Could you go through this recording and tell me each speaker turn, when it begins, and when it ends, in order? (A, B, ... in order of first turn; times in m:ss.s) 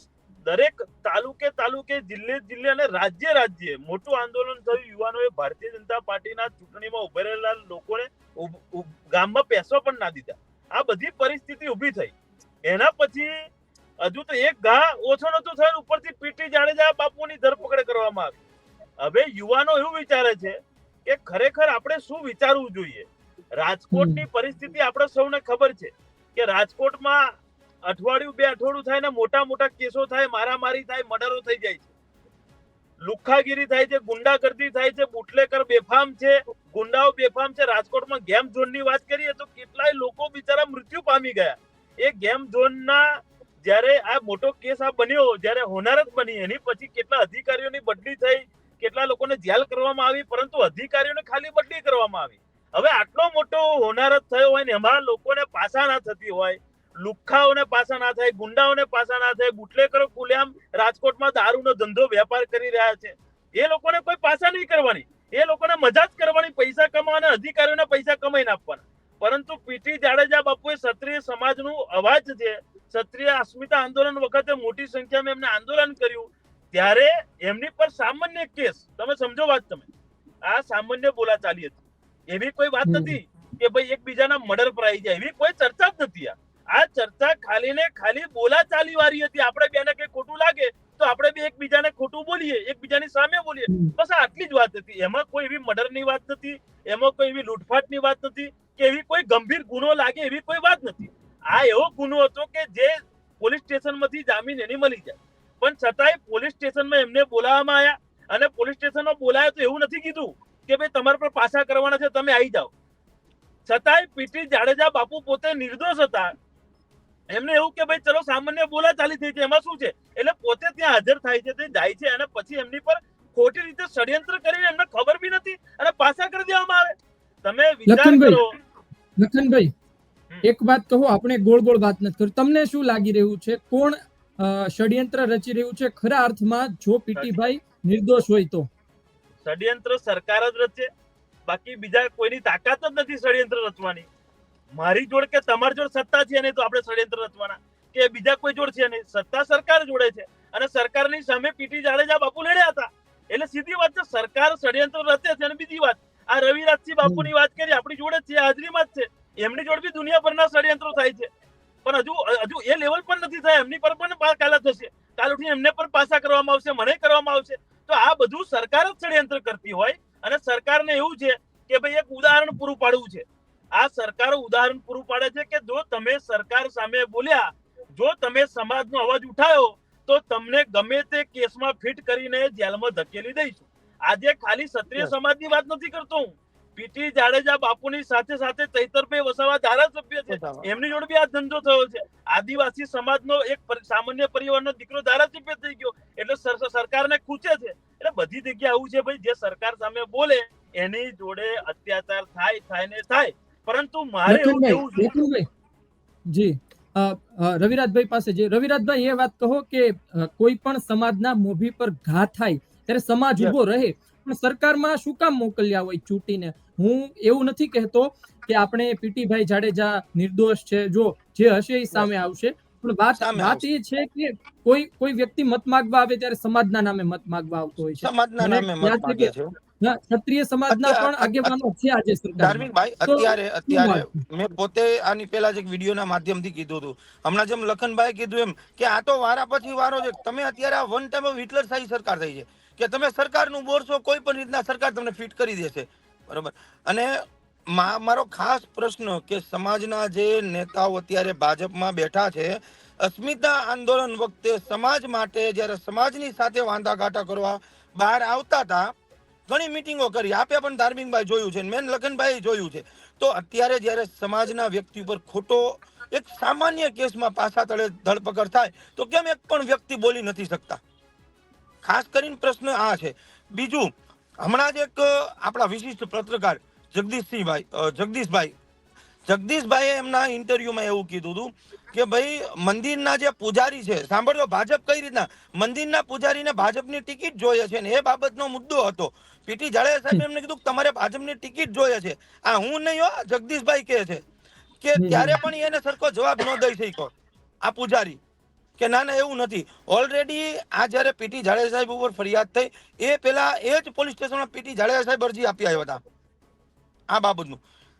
0:00.4-0:12.1 A
0:12.6-0:13.5 A
0:14.0-0:18.4 A
0:19.0-0:27.3 A
0:23.9-0:24.2 B
0:27.8-0:31.9 A
0:33.0-1:19.9 A
1:20.5-1:52.7 A
1:22.9-1:23.2 B
1:53.7-1:56.3 A
1:57.3-2:08.5 A
2:07.9-2:08.4 B
2:09.2-2:09.7 B
2:10.4-2:18.7 B
2:19.4-2:20.9 A
2:21.5-2:24.1 A
2:24.7-2:41.3 A
2:37.0-2:37.3 B
2:41.8-3:25.1 A
3:10.3-3:10.7 C
3:24.2-3:25.4 B
3:26.3-3:54.2 B
3:43.2-3:43.6 C
3:48.0-3:49.5 C
3:50.7-3:51.6 C
3:52.4-4:18.9 C
4:19.5-4:30.8 C
4:31.8-4:33.9 C
4:34.4-4:38.5 C
4:39.2-4:54.2 C
4:54.8-4:57.1 C
4:55.0-4:55.4 B
4:57.6-4:58.2 C
4:58.8-5:06.0 C
5:07.1-5:07.6 C